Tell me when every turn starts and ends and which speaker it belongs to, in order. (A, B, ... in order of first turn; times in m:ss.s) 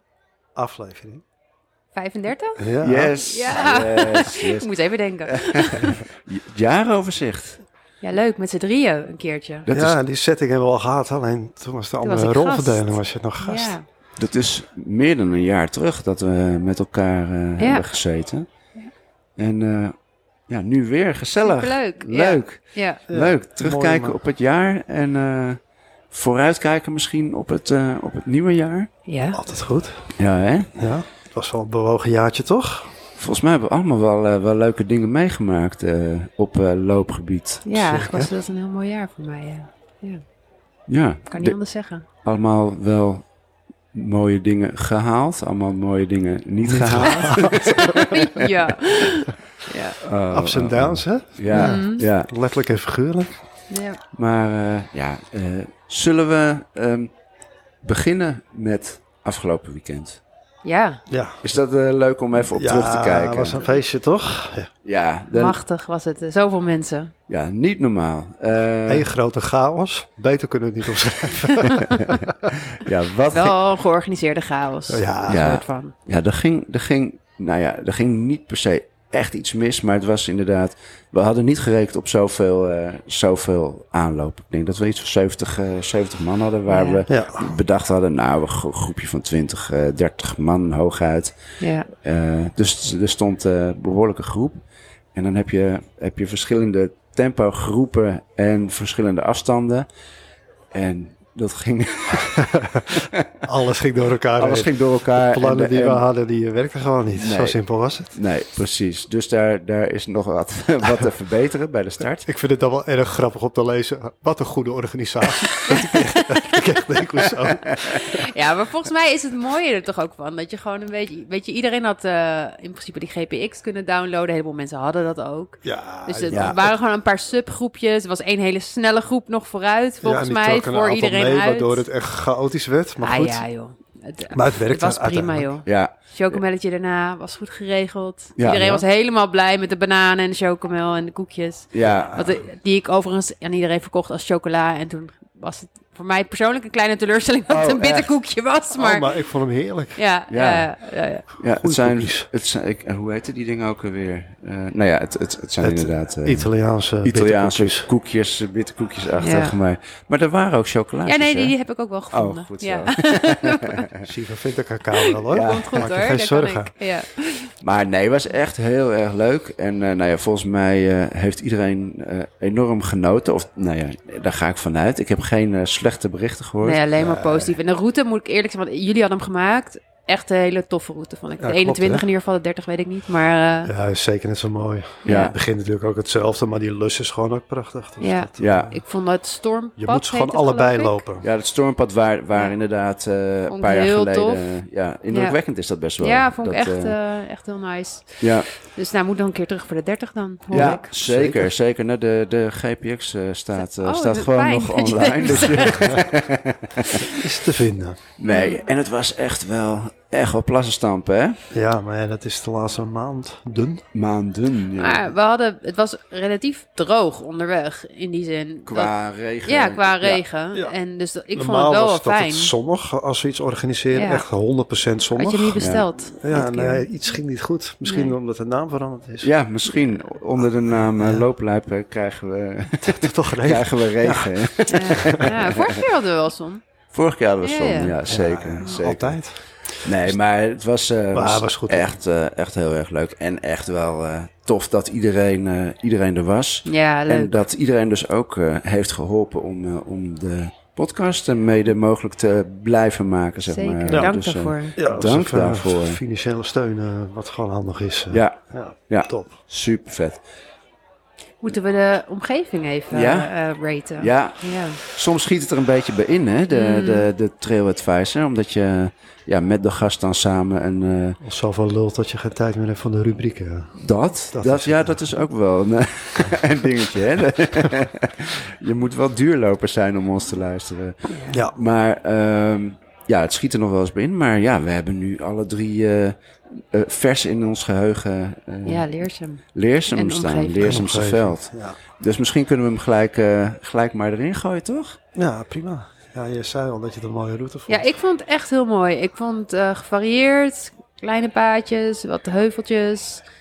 0:00.5-0:01.2 A
0:01.9-0:06.0 B
0:02.6-0:03.1 A
0:02.8-0:04.7 C
0:05.3-0:07.6 C
0:08.0-0:09.7 B
0:09.7-0:10.0 C
0:09.7-0:13.8 A
0:12.0-0:13.8 B
0:14.2-0:18.5 C
0:17.6-0:17.9 B
0:19.4-0:20.0 C
0:20.5-0:28.9 C
0:21.4-0:23.0 B
0:23.1-0:24.2 A
0:29.1-0:29.4 B
0:29.3-0:30.1 A
0:30.2-0:30.7 C
0:30.7-0:33.0 A
0:33.2-0:37.8 C
0:37.6-0:40.2 B
0:37.8-0:38.3 A
0:40.9-0:43.3 C
0:41.3-0:42.0 B
0:43.9-0:48.1 C
0:46.6-0:48.0 A
0:48.1-0:50.0 B
0:50.0-0:52.3 C
0:50.3-0:53.4 A
0:51.5-0:52.0 B
0:53.7-0:54.0 B
0:54.1-0:57.1 C
0:57.8-1:00.2 C
1:00.6-1:01.0 B
1:01.1-1:01.5 A
1:01.4-1:03.6 C
1:02.5-1:04.7 A
1:04.8-1:05.6 C
1:05.3-1:07.1 B
1:07.3-1:09.1 C
1:08.9-1:11.8 A
1:12.0-1:13.6 C
1:13.3-1:15.9 B
1:14.9-1:15.5 A
1:15.3-1:31.4 C
1:26.7-1:27.0 B
1:27.1-1:27.5 A
1:31.6-1:31.9 B
1:31.9-1:34.6 C
1:35.1-1:39.9 C
1:40.7-1:43.2 C
1:42.4-1:42.9 A
1:43.4-1:48.1 A
1:44.4-1:46.0 C
1:47.1-1:52.3 C
1:52.3-1:57.8 A
1:55.7-1:56.4 B
1:57.8-2:11.8 B
2:05.6-2:06.7 A
2:06.3-2:06.6 C
2:10.0-2:13.4 A
2:13.0-2:29.3 B
2:14.3-2:15.5 A
2:15.6-2:16.4 C
2:18.4-2:18.8 C
2:21.7-2:22.2 C
2:21.8-2:22.3 A
2:27.5-2:28.1 C
2:28.7-2:30.0 A
2:29.9-2:31.2 B
2:30.3-2:41.6 C
2:31.6-2:32.3 A
2:35.6-2:37.9 A
2:39.2-2:39.5 B
2:41.0-2:43.8 B
2:42.1-2:44.0 C
2:44.0-2:46.7 A
2:45.0-2:47.5 B
2:45.3-2:45.9 C
2:47.6-2:56.8 C
2:56.6-3:03.7 B
2:57.0-2:57.5 A
3:01.4-3:02.0 A
3:03.6-3:08.8 A
3:05.0-3:05.4 B
3:05.1-3:05.3 C
3:08.0-3:11.0 B
3:08.4-3:08.7 C
3:09.8-3:11.2 A
3:11.2-3:16.9 C
3:13.5-3:14.4 B
3:15.1-3:20.9 B
3:18.2-3:18.5 C
3:20.5-3:21.5 A
3:20.5-3:27.0 C
3:23.6-3:26.1 B
3:26.9-3:27.2 B
3:27.1-3:28.0 A
3:28.2-3:31.4 C
3:28.3-3:28.6 B
3:31.5-3:33.8 A
3:33.9-3:35.1 C
3:34.8-3:38.9 B
3:38.6-3:40.2 C
3:39.4-3:42.5 B
3:41.3-3:49.3 A
3:43.9-3:44.2 B
3:45.2-3:46.9 B
3:45.6-3:45.8 C
3:47.8-3:48.1 B
3:49.2-3:55.8 C
3:50.7-3:51.2 A
3:52.8-3:55.2 A
3:54.7-3:56.6 B
3:56.9-3:59.2 C
3:57.4-3:57.9 B
3:58.0-4:00.1 A
3:59.7-4:16.0 C
4:01.1-4:01.9 A
4:06.6-4:07.4 B
4:13.5-4:14.8 B
4:13.9-4:14.2 A
4:14.8-4:19.3 A
4:18.1-4:20.2 C
4:21.4-4:24.8 B
4:22.9-4:23.3 C
4:24.0-4:31.2 C
4:26.5-4:27.1 B
4:31.2-4:35.1 A
4:33.8-4:41.0 C
4:41.1-4:41.4 B
4:41.3-4:41.6 A
4:41.5-4:48.9 C
4:48.6-4:50.8 B
4:49.5-4:55.0 C
4:50.6-4:51.8 A
4:55.1-4:57.8 A
4:57.7-5:03.2 B